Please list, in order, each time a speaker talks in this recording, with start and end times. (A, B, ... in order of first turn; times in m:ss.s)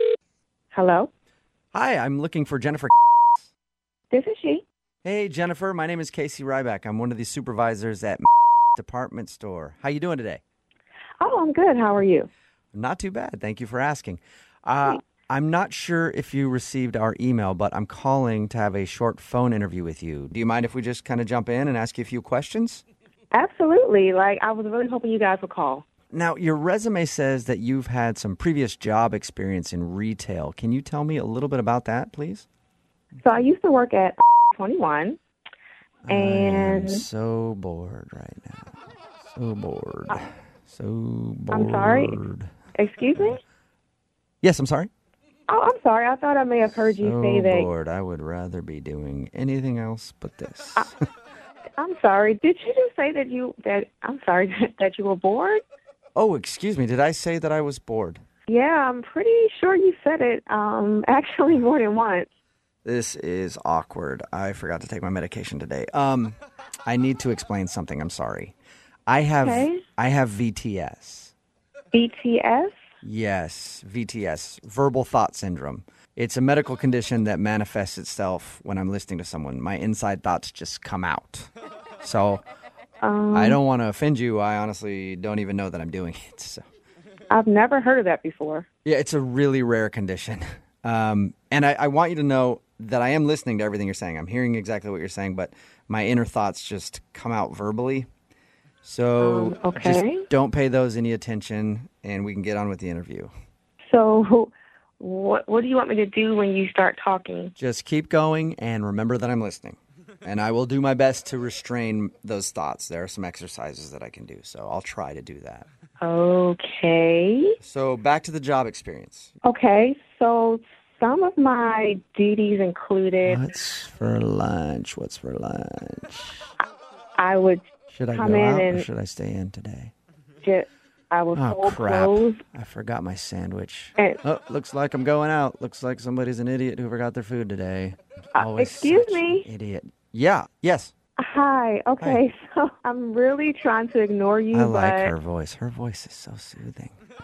0:00.7-0:01.1 A
0:01.7-0:03.5 B
0:04.1-0:04.6 A
0:05.0-0:08.2 B
0:08.8-0:10.4 B
0:11.2-0:12.3 A
0:12.7-0:22.8 B
0:23.3-0:25.8 A
0:26.1-0:32.5 B
0:33.2-0:35.2 A
0:36.0-0:38.7 B
0:36.1-0:37.0 A
0:39.3-0:42.5 B
0:41.5-0:42.2 A
0:42.7-0:43.4 A
0:44.4-0:44.9 B
0:45.5-0:47.7 A
0:47.0-0:50.9 B
0:51.8-0:55.6 A
0:56.2-0:58.2 B
0:58.5-1:02.3 A
1:02.8-1:08.5 B
1:09.1-1:11.3 B
1:09.4-1:09.8 A
1:11.9-1:12.8 A
1:13.0-1:21.5 B
1:22.0-1:22.4 B
1:23.0-1:23.6 A
1:23.3-1:26.6 B
1:27.3-1:28.6 A
1:28.8-1:38.1 B
1:38.8-1:43.3 B
1:39.2-1:40.2 A
1:43.9-1:47.5 A
1:47.6-1:55.7 B
1:56.0-1:57.6 A
1:57.6-1:59.3 B
1:59.4-2:03.4 A
2:03.2-2:06.5 B
2:07.2-2:07.6 A
2:07.9-2:09.9 B
2:08.1-2:08.9 A
2:10.4-2:12.4 A
2:11.3-2:20.9 B
2:18.3-2:19.4 A
2:21.2-2:25.1 A
2:24.5-2:27.0 B